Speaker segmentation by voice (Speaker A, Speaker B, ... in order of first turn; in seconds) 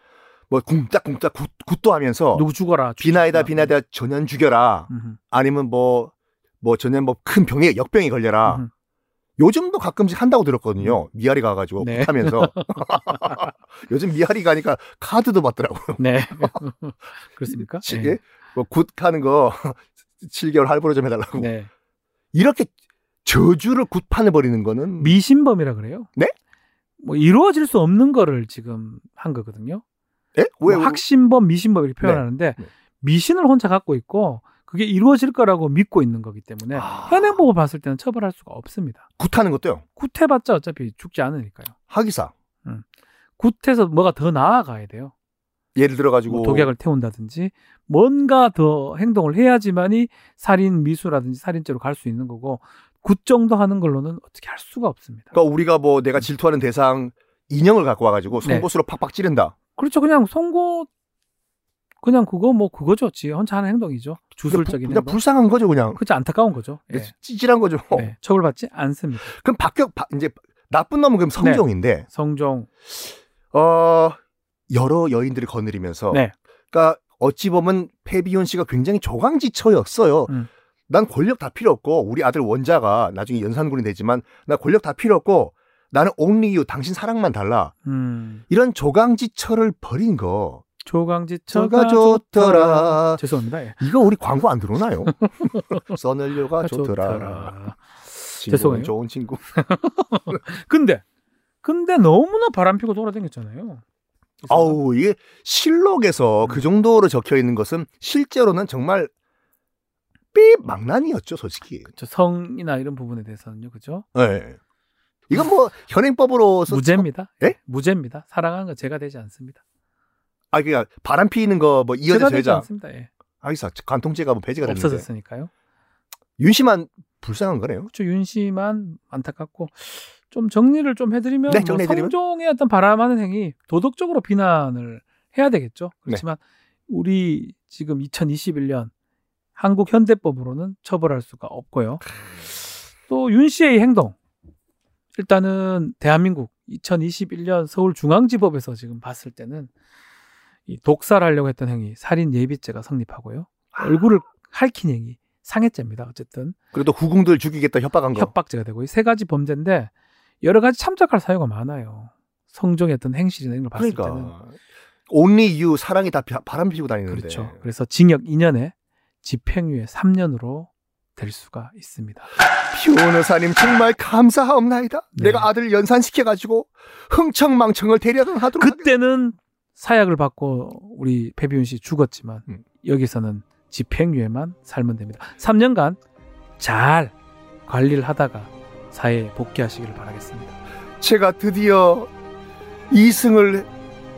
Speaker A: 0.5-2.5, 3.0-8.6, 9.4-16.6, 17.5-21.5, 22.3-22.7, 23.2-25.2, 30.4-31.0, 32.0-32.7, 36.8-37.4, 39.2-39.8, 41.9-42.3, 45.8-46.7, 55.3-59.5, 64.5-66.0, 66.9-68.1, 69.2-72.1, 73.5-74.2, 74.7-80.3, 80.9-87.7, 88.5-90.6, 91.5-93.2, 93.8-97.5, 98.4-99.4, 104.5-109.1, 110.3-111.9, 114.1-114.6, 115.3-117.5, 120.5-122.7, 123.4-125.0, 126.4-127.9, 131.5-132.1, 153.8-154.0, 156.7-158.3, 163.8-164.5, 165.1-167.6, 172.7-178.9, 191.0-192.1, 192.9-193.7
Speaker B: 2.3-3.7, 4.9-5.2, 11.8-13.5, 16.0-18.2, 21.4-21.7, 25.0-26.1, 27.0-29.8, 30.6-39.0, 40.0-41.7, 43.4-45.1, 46.3-55.3, 58.3-58.7, 59.8-60.9, 62.0-65.2, 66.0-67.1, 67.9-69.3, 71.4-72.7, 87.8-88.4, 90.8-93.8, 95.1-95.8, 96.6-98.9, 99.5-101.0, 101.6-103.8, 104.4-104.8, 112.0-114.0, 116.7-119.6, 122.1-123.1, 124.6-125.5, 127.9-138.9, 139.6-142.0, 143.1-144.2, 145.2-149.7, 150.7-156.5, 158.1-159.9, 160.4-164.3, 167.1-172.3, 175.2-175.5, 178.6-186.0, 186.6-187.1, 187.7-190.5